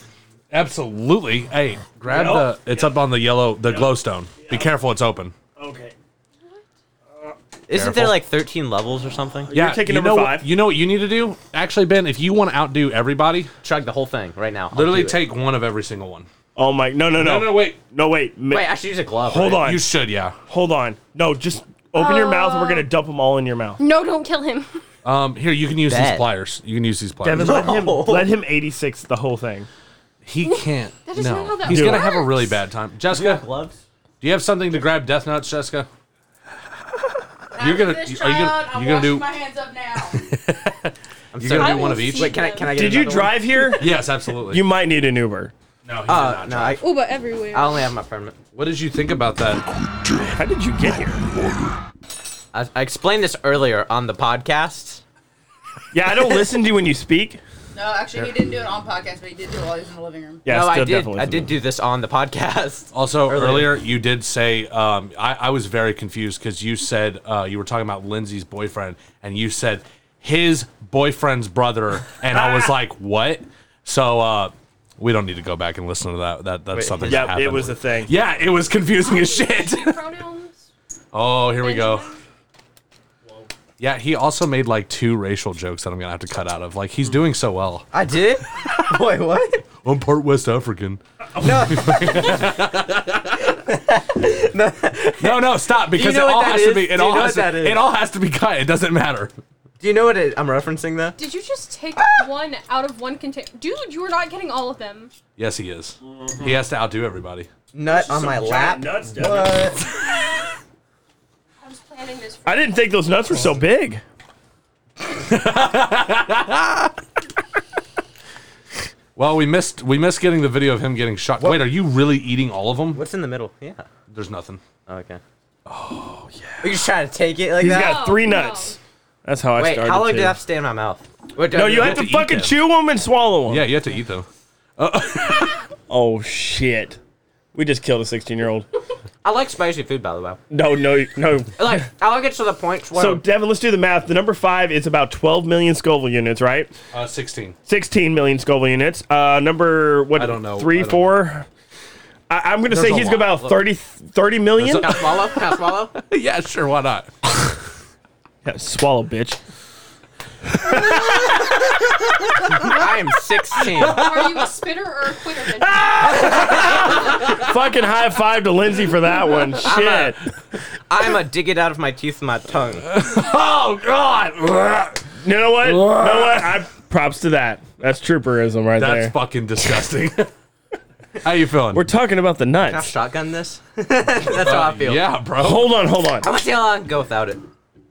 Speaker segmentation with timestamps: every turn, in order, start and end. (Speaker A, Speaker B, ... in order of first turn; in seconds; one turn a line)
Speaker A: 0.5-5.3
Speaker B: 2.1-2.9
Speaker B: 3.6-4.7
Speaker B: 5.6-6.0
Speaker C: 7.7-9.5
Speaker A: 7.7-8.2
Speaker B: 9.5-10.5
Speaker A: 9.5-13.5
Speaker C: 13.6-15.2
Speaker A: 14.7-16.3
Speaker B: 16.6-18.7
Speaker A: 17.1-17.8
Speaker C: 18.5-19.7
Speaker B: 19.3-19.9
Speaker A: 19.6-20.4
Speaker B: 20.5-23.8
Speaker D: 21.9-22.9
Speaker D: 23.8-24.8
Speaker A: 25.0-27.7
Speaker C: 25.9-26.3
Speaker B: 27.2-29.7
Speaker C: 27.4-28.3
Speaker A: 30.2-33.5
Speaker D: 30.4-32.5
Speaker B: 31.7-32.0
Speaker C: 33.1-33.8
Speaker A: 34.2-35.9
Speaker E: 37.6-40.2
Speaker A: 37.6-39.3
Speaker A: 40.2-42.4
Speaker C: 41.3-43.7
Speaker D: 41.6-42.7
Speaker B: 42.7-45.5
Speaker A: 43.8-44.6
Speaker A: 45.9-46.8
Speaker C: 46.1-46.8
Speaker D: 46.8-47.9
Speaker C: 47.5-48.4
Speaker A: 48.5-49.7
Speaker B: 50.3-51.3
Speaker C: 52.5-55.0
Speaker B: 55.9-57.4
Speaker E: 57.8-60.5
Speaker B: 60.5-61.5
Speaker C: 60.5-63.7
Speaker A: 62.9-80.0
Speaker C: 76.7-77.3
Speaker B: 77.1-78.1
Speaker D: 79.0-80.7
Speaker A: 81.1-82.1
Speaker D: 81.5-82.2
Speaker A: 83.8-87.9
Speaker C: 87.9-89.7
Speaker A: 89.8-93.6
Speaker C: 91.4-92.6
Speaker C: 93.5-97.8
Speaker A: 95.2-99.3
Speaker C: 99.8-101.2
Speaker D: 101.2-105.1
Speaker A: 105.4-107.5
Speaker B: 106.0-106.5
Speaker C: 107.7-109.9
Speaker B: 107.9-109.8
Speaker D: 111.6-112.8
Speaker B: 112.5-114.0
Speaker A: 115.1-117.0
Speaker A: 119.2-123.0
Speaker C: 121.4-121.6
Speaker C: 122.9-123.9
Speaker A: 124.1-124.6
Speaker C: 124.9-125.2
Speaker A: 125.7-126.2
Speaker C: 126.6-128.0
Speaker B: 127.6-130.4
Speaker D: 127.7-128.8
Speaker C: 129.6-132.4
Speaker B: 131.5-133.7
Speaker A: 131.8-132.5
Speaker A: 133.5-134.3
Speaker A: 134.8-135.7
Speaker B: 135.9-137.0
Speaker B: 137.5-138.7
Speaker C: 139.2-140.4
Speaker B: 140.5-141.8
Speaker C: 141.6-143.2
Speaker B: 142.9-146.7
Speaker A: 146.9-147.6
Speaker B: 147.7-151.5
Speaker A: 150.2-151.2
Speaker B: 152.3-154.9
Speaker A: 152.7-153.4
Speaker A: 154.6-157.6
Speaker C: 154.6-155.9
Speaker B: 158.4-159.4
Speaker B: 160.6-161.2
Speaker A: 162.2-162.8
Speaker C: 162.5-164.1
Speaker A: 163.8-164.4
Speaker D: 163.9-167.2
Speaker B: 165.8-170.2
Speaker A: 166.3-167.4
Speaker C: 169.7-170.2
Speaker C: 170.9-172.9
Speaker A: 172.9-175.1
Speaker B: 175.2-179.1
Speaker A: 175.7-176.5
Speaker A: 178.8-180.3
Speaker A: 181.2-181.9
Speaker B: 181.7-182.9
Speaker C: 182.6-185.1
Speaker A: 184.3-185.7
Speaker B: 185.4-186.3
Speaker C: 186.2-187.4